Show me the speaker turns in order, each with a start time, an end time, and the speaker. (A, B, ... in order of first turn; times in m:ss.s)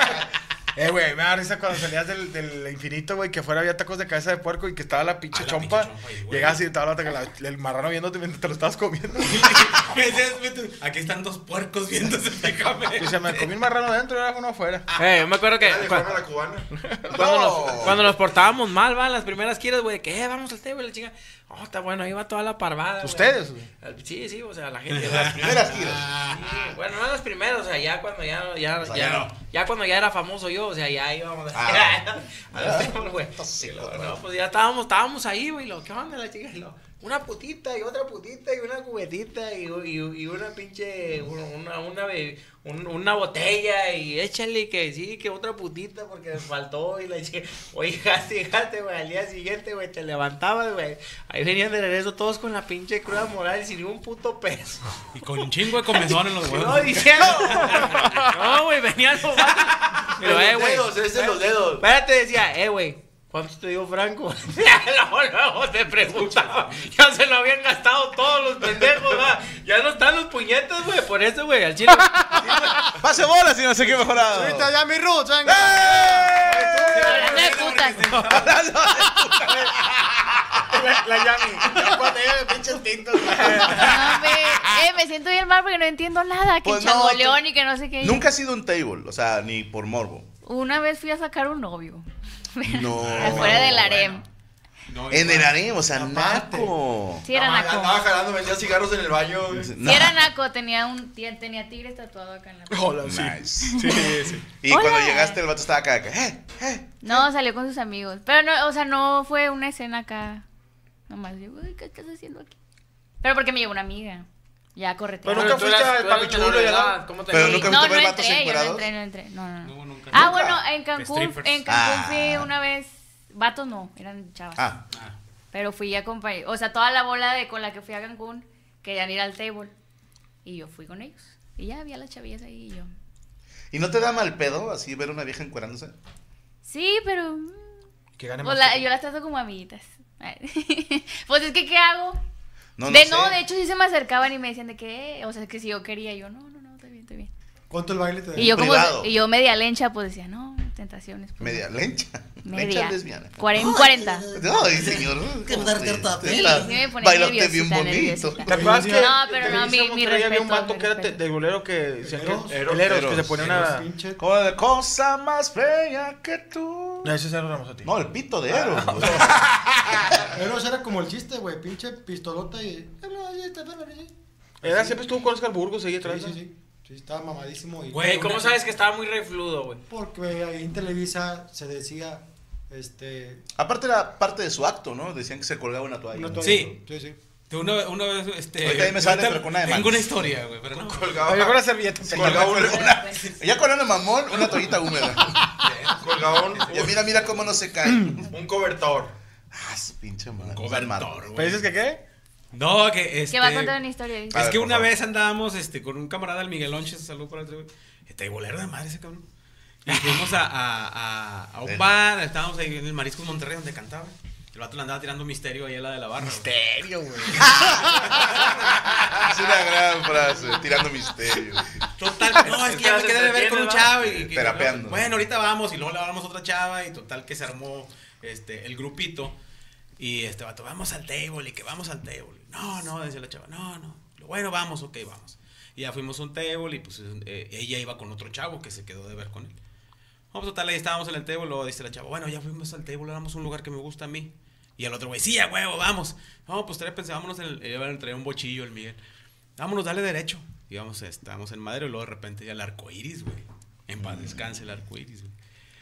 0:00.8-0:09.7 A
0:05.3-0:06.6 B
0:09.2-0:13.5 B
0:13.0-0:14.9 A
0:15.0-0:16.2 C
0:15.6-0:16.7 D
0:16.8-0:17.8 A
0:17.1-0:18.1 E
0:17.2-0:25.6 C
0:23.0-0:23.7 A
0:24.9-0:26.4 B
0:25.0-0:26.2 E
0:26.2-0:55.0 C
0:28.8-0:29.3 E
0:31.5-0:34.2 E
0:55.1-0:58.2 B
0:55.9-1:12.8 C
0:57.8-0:58.3 A
1:00.2-1:01.8 D
1:06.1-1:06.8 B
1:13.0-1:14.7 E
1:14.3-1:16.8 F
1:15.4-1:17.7 E
1:16.7-1:18.5 A
1:17.0-1:18.2 G
1:17.4-1:18.3 B
1:18.2-1:20.8 E
1:20.7-1:24.2 A
1:21.6-1:22.0 E
1:23.3-1:23.9 E
1:23.8-1:28.2 G
1:26.6-1:27.4 E
1:28.0-1:30.3 E
1:30.4-1:32.0 G
1:32.6-1:34.2 G
1:32.6-1:34.1 E
1:33.0-1:34.1 B
1:34.9-1:35.5 B
1:35.1-1:37.3 E
1:35.9-1:36.7 F
1:37.2-1:38.1 G
1:37.3-1:39.7 D
1:39.6-1:40.2 E
1:39.8-1:43.0 G
1:42.7-1:44.5 A
1:43.0-1:43.8 E
1:43.7-1:45.4 G
1:44.5-1:47.2 E
1:47.0-1:50.4 G
1:51.1-1:52.5 G
1:53.2-1:55.6 G
1:55.2-1:57.0 A
1:55.3-1:57.7 C
1:57.3-1:58.9 E
1:57.4-2:04.7 G
1:59.6-2:00.3 B
2:00.1-2:00.6 E
2:01.0-2:01.6 B
2:01.7-2:02.5 E
2:05.5-2:09.7 G
2:10.4-2:12.9 G
2:13.7-2:15.9 E
2:16.6-2:17.8 G
2:18.2-2:18.9 A
2:18.4-2:22.2 G
2:22.8-2:23.4 E
2:22.9-2:27.3 G
2:27.7-2:28.6 F
2:28.4-2:31.7 G
2:28.4-2:29.1 E
2:31.4-2:38.9 E
2:32.4-2:34.4 G
2:36.2-2:41.2 G
2:38.5-2:39.7 F
2:38.5-2:43.9 A
2:42.0-2:42.7 F
2:42.2-2:43.4 D
2:42.8-2:43.5 E
2:43.4-2:44.2 F
2:44.2-2:47.1 E
2:47.0-2:47.9 A
2:47.8-2:50.3 E
2:48.5-2:49.4 A
2:50.3-2:55.0 F
2:54.6-2:56.4 A
2:56.0-2:58.4 F
2:57.9-2:59.8 C
2:58.0-2:58.4 B
2:59.9-3:03.4 F
3:03.6-3:06.8 E
3:06.1-3:07.2 F
3:06.4-3:06.7 B
3:07.5-3:11.4 B
3:08.6-3:10.1 E
3:10.8-3:12.9 D
3:11.2-3:12.8 A
3:12.1-3:15.6 E
3:12.7-3:13.4 G
3:14.4-3:15.1 B
3:15.6-3:17.4 B
3:16.0-3:17.0 D
3:16.7-3:18.3 E
3:17.8-3:18.2 F
3:18.3-3:19.1 D
3:19.5-3:21.3 E
3:20.4-3:21.7 B
3:21.3-3:22.0 A
3:22.5-3:23.8 B
3:23.3-3:24.5 G
3:24.3-3:24.9 E
3:24.3-3:29.2 B
3:29.8-3:36.5 B
3:36.5-3:37.5 C
3:37.4-3:38.4 E
3:37.4-3:39.0 B
3:39.1-3:41.7 E
3:42.0-3:49.3 B
3:42.4-3:44.0 C
3:44.0-3:45.1 E
3:50.0-3:59.5 B
4:00.3-4:09.0 B
4:09.6-4:15.3 B
4:14.0-4:14.4 E